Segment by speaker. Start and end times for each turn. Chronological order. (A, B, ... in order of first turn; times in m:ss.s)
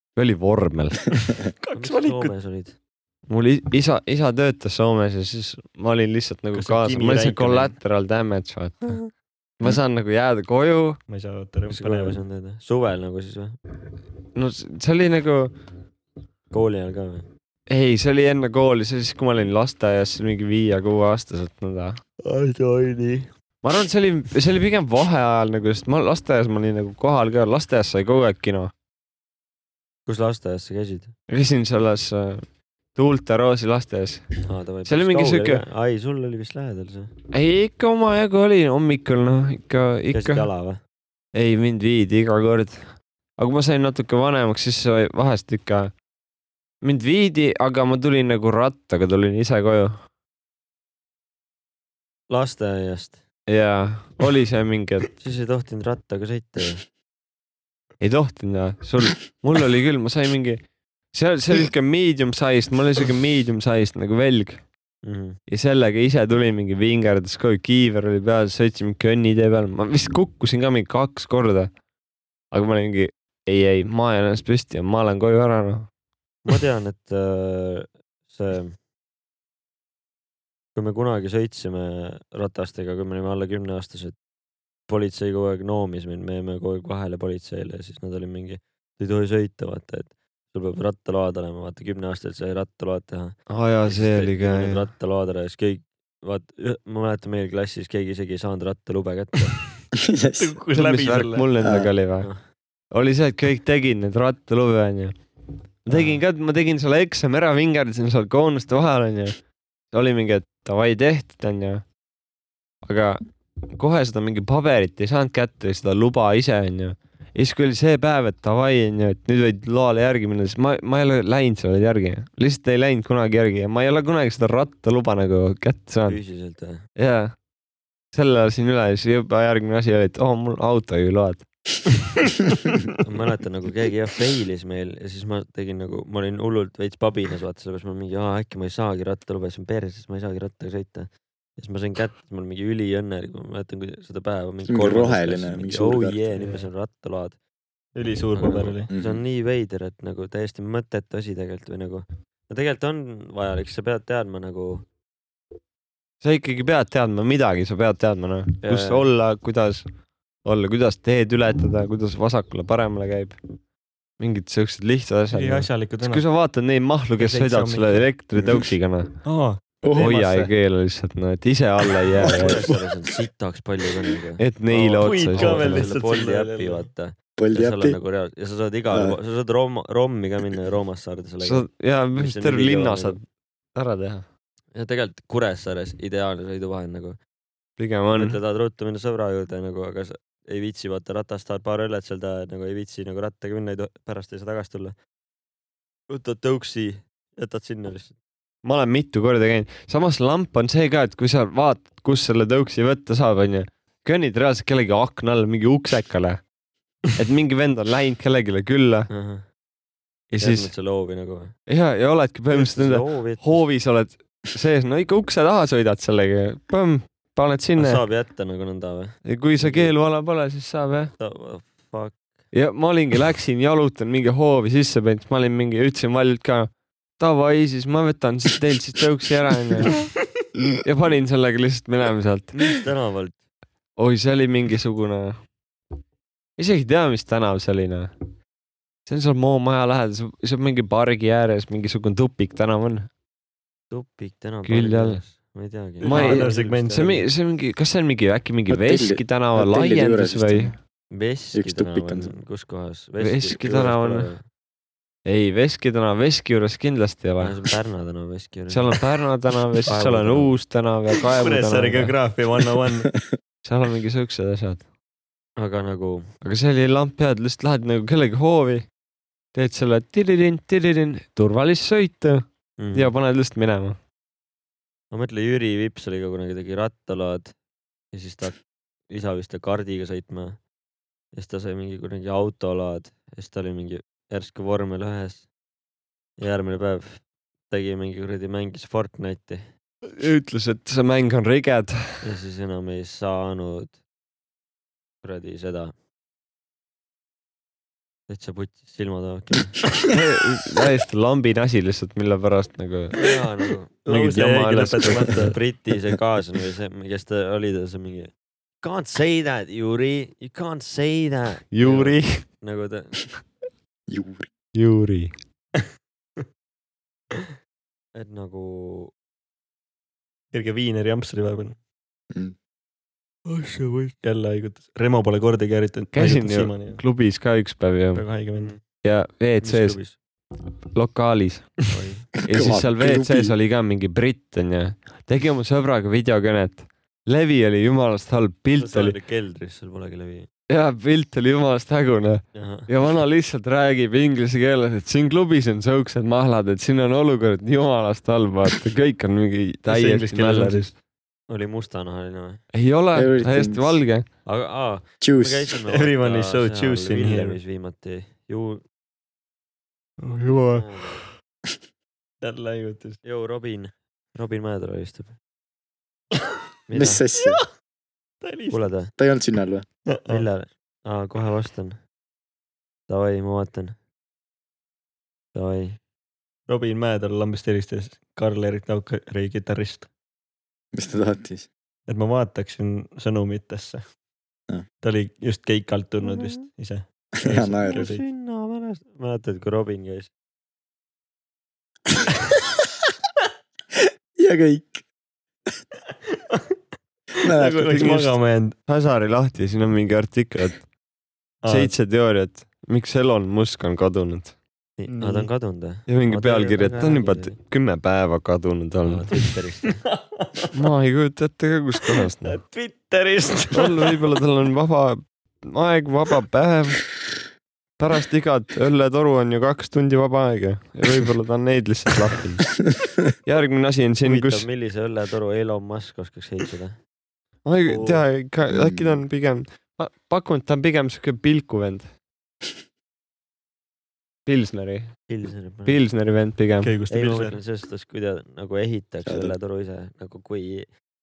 0:00.2-0:01.4 A
0:01.6-0:02.3 B
0:01.7-0:02.8 C
0:03.3-0:09.0 A
0:06.5-0:07.8 B
0:09.6-0:11.0 A
0:11.1-0:12.2 B
0:11.7-0:13.6 C
0:14.3-0:15.5 A
0:16.5-0:17.3 C
0:17.7-0:22.0 A
0:22.3-0:23.2 B
0:23.6-0:28.7 A
0:30.1-0:31.1 C
0:31.3-0:34.3 A
0:34.4-0:37.1 C
0:34.8-0:35.6 A
0:37.3-0:40.5 A
0:40.1-0:40.8 C
0:41.3-0:42.8 A
0:43.4-0:45.9 A
0:46.8-0:49.9 A
0:52.3-0:53.2 C
0:53.5-0:55.1 A
0:55.2-0:56.8 C
0:58.0-1:04.6 A
1:05.0-1:05.4 C
1:05.5-1:11.7 A
1:12.5-1:15.9 A
1:16.5-1:18.8 C
1:20.8-1:24.2 C
1:24.9-1:39.6 C
1:33.5-1:34.8 A
1:40.0-1:40.6 D
1:40.4-1:41.5 B
1:40.8-1:42.3 A
1:41.6-1:41.9 D
1:42.9-1:45.2 A
1:45.8-1:49.4 A
1:45.9-1:46.2 C
1:49.9-1:51.8 A
1:52.8-1:53.2 A
1:53.8-2:06.2 A
2:06.1-2:06.8 C
2:07.0-2:07.3 A
2:08.1-2:11.4 A
2:13.0-2:27.4 C
2:24.6-2:26.4 D
2:26.4-2:26.7 B
2:28.0-2:28.9 B
2:28.4-2:34.8 C
2:28.9-2:29.2 D
2:36.2-2:39.8 A
2:38.6-2:39.1 C
2:40.4-2:43.4 A
2:44.2-2:49.1 A
2:45.3-2:46.2 B
2:47.2-2:48.1 B
2:48.4-2:48.6 D
2:49.2-2:50.5 B
2:49.9-2:52.7 A
2:52.2-3:03.2 C
2:52.3-2:52.8 D
2:54.4-2:55.9 A
2:54.7-2:56.9 B
2:57.4-2:58.0 D
2:58.9-2:59.2 D
3:01.4-3:03.2 A
3:03.8-3:04.3 A
3:04.7-3:07.2 C
3:07.8-3:08.4 A
3:08.1-3:15.0 C
3:16.1-3:18.2 C
3:18.6-3:26.4 A
3:27.1-3:29.1 A
3:29.1-3:29.4 C
3:30.3-3:30.7 A
3:30.4-3:31.5 C
3:31.7-3:38.0 A
3:32.5-3:33.6 C
3:37.8-3:40.0 C
3:39.3-3:41.1 A
3:41.2-3:42.2 C
3:42.5-3:50.0 A
3:50.8-3:52.8 A
3:52.6-3:53.4 C
3:54.0-3:55.4 A
3:56.6-3:58.1 A
3:59.1-4:03.1 A
4:03.9-4:06.8 C
4:04.7-4:05.2 A
4:06.0-4:07.2 B
4:06.0-4:10.8 A
4:08.7-4:10.8 D
4:11.1-4:14.4 C
4:11.5-4:12.3 D
4:13.2-4:14.3 A
4:15.2-4:17.6 A
4:17.4-4:19.0 C
4:18.7-4:22.2 A
4:19.9-4:20.6 C
4:21.4-4:23.1 B
4:23.6-4:24.8 A
4:25.6-4:26.3 C
4:26.4-4:28.8 A
4:29.5-4:34.0 A
4:32.8-4:33.2 C
4:35.1-4:37.5 C
4:38.1-4:38.6 C
4:39.1-4:40.6 C
4:41.3-4:45.5 C
4:46.4-4:49.6 C
4:50.1-4:52.2 A
4:52.2-4:54.0 C
4:55.2-4:55.9 C
4:58.3-4:59.8 C
5:00.1-5:03.2 A
5:03.2-5:04.0 C
5:04.0-5:05.6 B
5:04.1-5:05.5 A
5:05.1-5:13.4 C
5:11.7-5:12.4 A
5:14.1-5:14.5 D
5:14.8-5:15.3 A
5:18.1-5:19.1 C
5:20.5-5:21.8 B
5:23.5-5:27.0 B
5:26.1-5:28.2 A
5:28.1-5:28.7 B
5:28.6-5:28.8 C
5:29.0-5:30.0 A
5:29.6-5:30.2 C
5:30.6-5:31.8 A
5:31.9-5:32.3 C
5:32.4-5:33.5 D
5:32.4-5:39.2 A
5:38.7-5:40.5 C
5:40.7-5:50.9 A
5:42.6-5:42.9 C
5:49.9-5:50.9 B
5:51.5-5:52.6 C
5:52.7-5:54.2 A
5:53.2-5:54.0 D
5:54.5-5:58.8 C
5:55.2-5:55.7 D
5:55.9-5:57.6 B
6:00.2-6:00.9 B
6:00.5-6:01.2 C
6:02.4-6:03.2 B
6:03.2-6:05.4 C
6:06.9-6:07.2 C
6:06.9-6:07.6 D
6:08.4-6:08.8 B
6:08.7-6:09.1 C
6:09.2-6:09.8 D
6:10.1-6:10.4 B
6:10.3-6:12.0 C
6:13.1-6:14.0 C
6:15.5-6:16.0 C
6:16.7-6:20.1 B
6:20.9-6:21.7 D
6:22.1-6:24.0 B
6:25.0-6:28.2 B
6:26.2-6:26.6 C
6:27.4-6:28.1 D
6:27.8-6:30.3 C
6:34.4-6:35.0 D
6:37.4-6:38.3 D
6:37.5-6:38.8 B
6:38.0-6:38.3 A
6:38.8-6:40.8 A
6:41.6-6:41.9 B
6:41.7-6:44.6 A
6:45.0-6:47.6 C
6:45.1-6:45.5 B
6:46.1-6:49.3 A
6:49.0-6:50.1 C
6:49.9-6:50.7 B
6:50.7-6:52.6 A
6:52.4-6:54.2 B
6:53.7-6:57.1 A
6:58.0-7:02.8 A
7:03.5-7:04.7 A
7:04.2-7:07.0 C
7:07.6-7:12.1 A
7:07.9-7:08.2 B
7:08.7-7:09.2 D
7:14.5-7:15.1 A
7:15.3-7:16.0 C
7:15.9-7:16.9 A
7:16.8-7:17.6 B
7:17.1-7:20.9 C
7:19.2-7:19.5 D